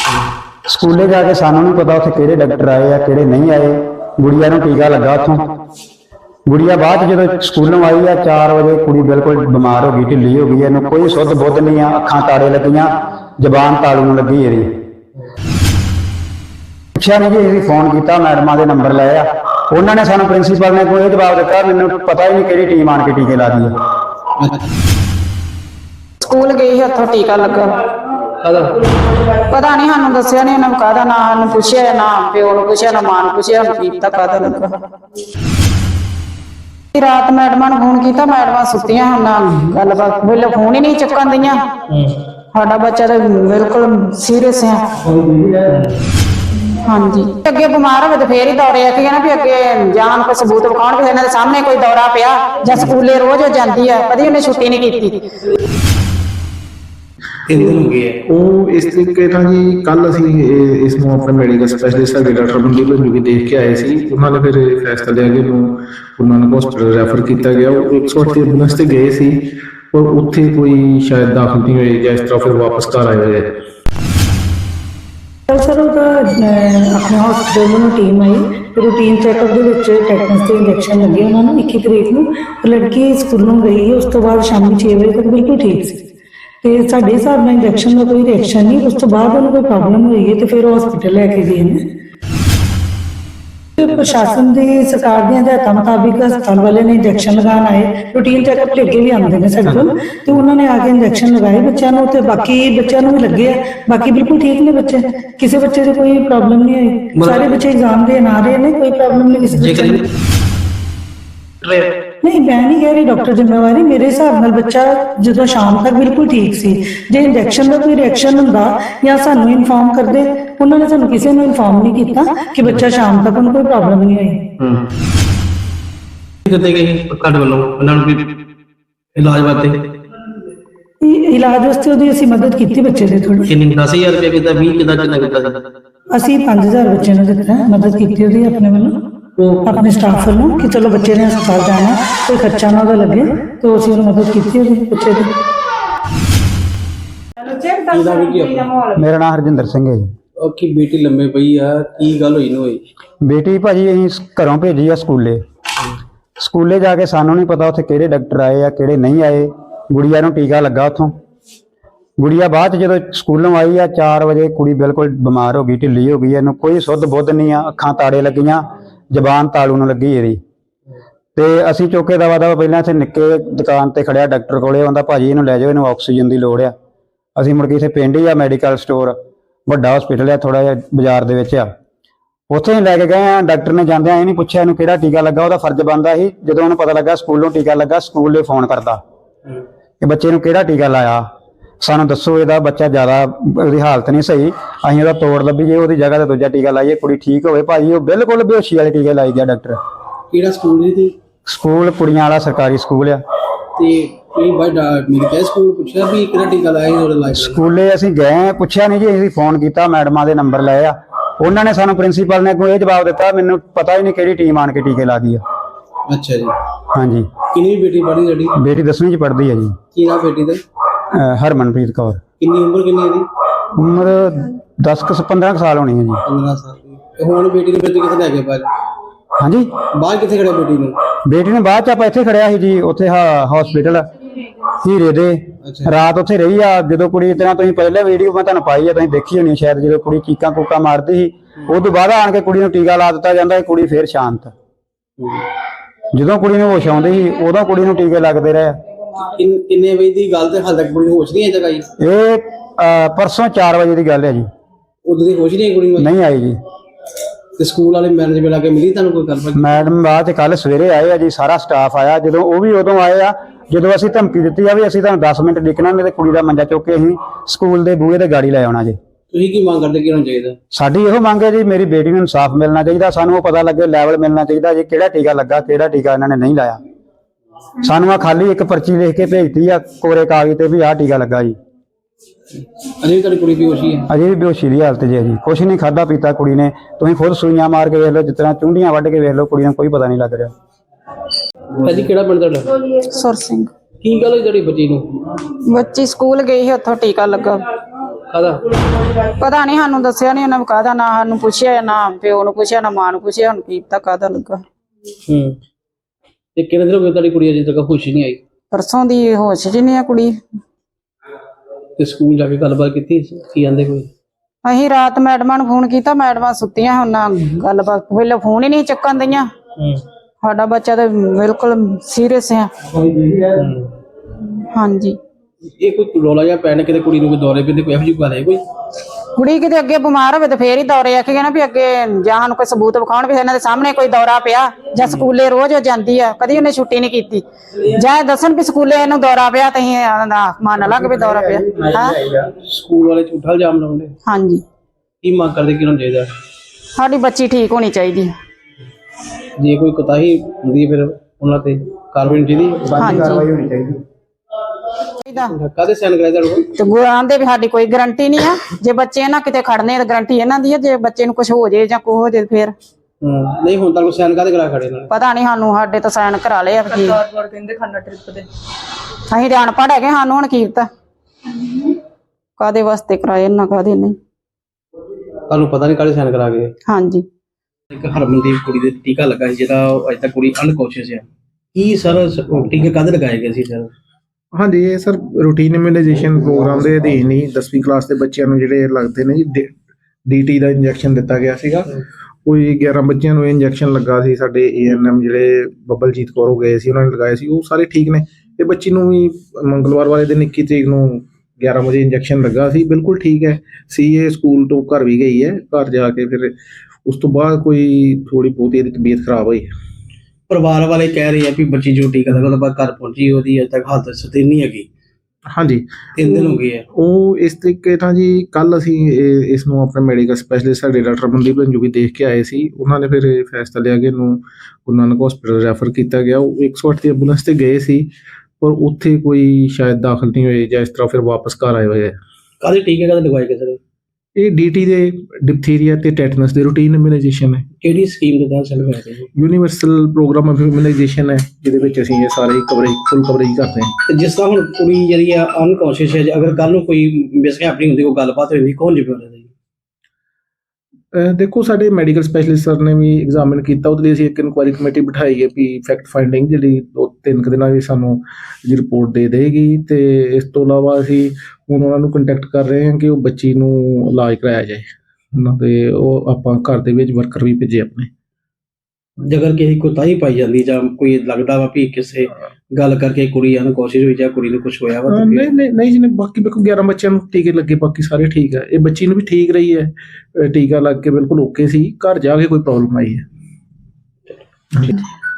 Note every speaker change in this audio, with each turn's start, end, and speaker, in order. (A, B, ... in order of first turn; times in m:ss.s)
0:00.7-0:05.5 A
0:06.5-0:14.7 A
0:17.0-0:23.7 A
0:24.4-0:24.6 B
0:26.2-0:27.8 C
0:28.4-0:28.8 B
0:29.4-0:34.7 C
0:37.0-0:41.6 C
0:41.9-0:42.2 B
0:42.5-0:44.8 C
0:45.6-0:46.0 B
0:46.8-0:55.2 C
0:57.5-0:58.2 B
0:57.5-1:13.5 D
1:15.5-1:26.0 E
1:26.6-1:31.8 E
1:33.8-1:50.0 E
1:47.2-1:47.5 B
1:49.6-1:50.0 B
1:51.6-1:51.9 B
1:52.2-2:04.4 E
2:04.6-2:04.9 B
2:06.5-2:08.2 B
2:09.2-2:09.8 B
2:11.0-2:13.5 E
2:13.5-2:15.6 B
2:16.1-2:19.0 E
2:19.4-2:19.7 B
2:19.7-2:25.3 E
2:27.4-2:27.8 C
2:27.8-2:28.7 B
2:29.0-2:30.0 A
2:30.4-2:32.8 B
2:33.2-2:35.4 A
2:36.4-2:41.1 A
2:42.2-2:50.4 A
2:51.4-2:56.7 A
2:57.4-2:59.2 A
2:59.7-3:01.7 A
3:02.5-3:09.0 A
3:10.0-3:11.2 A
3:11.8-3:19.8 A
3:20.3-3:21.1 B
3:21.5-3:23.2 A
3:23.8-3:27.6 B
3:27.3-3:35.4 A
3:36.1-3:36.5 B
3:36.9-3:37.3 A
3:37.5-3:38.6 B
3:38.6-3:39.8 A
3:39.9-3:40.6 B
3:41.1-3:42.2 A
3:42.4-3:43.3 B
3:43.8-3:46.2 A
3:46.3-3:48.7 B
3:49.4-3:49.7 A
3:49.9-3:51.0 B
3:51.3-3:54.0 A
3:54.8-4:04.5 A
3:55.6-3:56.0 B
4:05.2-4:05.5 B
4:06.1-4:08.8 A
4:09.2-4:11.9 B
4:12.0-4:14.4 A
4:15.0-4:16.1 B
4:16.0-4:16.6 A
4:17.6-4:19.8 B
4:19.6-4:29.0 A
4:29.3-4:30.6 B
4:30.7-4:36.8 A
4:37.8-4:41.6 A
4:42.6-4:44.1 B
4:44.1-4:50.5 A
4:51.8-4:52.9 B
4:53.0-4:53.7 C
4:54.0-4:55.3 B
4:55.6-4:57.6 C
4:58.3-4:58.7 B
4:59.2-5:04.6 C
5:05.3-5:05.6 B
5:06.6-5:08.4 B
5:08.7-5:10.3 C
5:12.0-5:14.1 B
5:14.6-5:19.5 C
5:19.8-5:20.0 B
5:20.4-5:22.7 C
5:23.4-5:23.9 B
5:24.7-5:25.2 C
5:25.8-5:28.6 B
5:29.4-5:42.2 C
5:42.3-5:44.2 B
5:44.3-5:44.6 C
5:45.2-5:46.3 B
5:47.0-5:48.3 C
5:49.6-5:52.9 B
5:52.8-5:54.0 A
5:53.0-5:53.4 C
5:55.2-5:55.6 C
5:55.5-5:56.7 B
5:56.7-6:02.7 C
6:03.2-6:05.1 B
6:05.1-6:08.4 C
6:09.3-6:10.9 C
6:11.6-6:12.0 C
6:12.6-6:14.2 C
6:15.5-6:16.7 B
6:16.9-6:17.2 C
6:17.9-6:23.9 B
6:24.5-6:29.7 D
6:30.3-6:46.5 D
6:47.1-6:49.7 D
6:50.5-6:54.9 B
6:55.5-7:08.1 D
6:56.2-6:56.8 B
7:08.6-7:12.2 D
7:12.6-7:13.8 B
7:14.4-7:17.7 D
7:17.8-7:19.3 B
7:19.4-7:23.9 D
7:24.1-7:29.5 B
7:31.1-7:48.1 D
7:49.3-7:55.5 B
7:55.1-8:03.2 D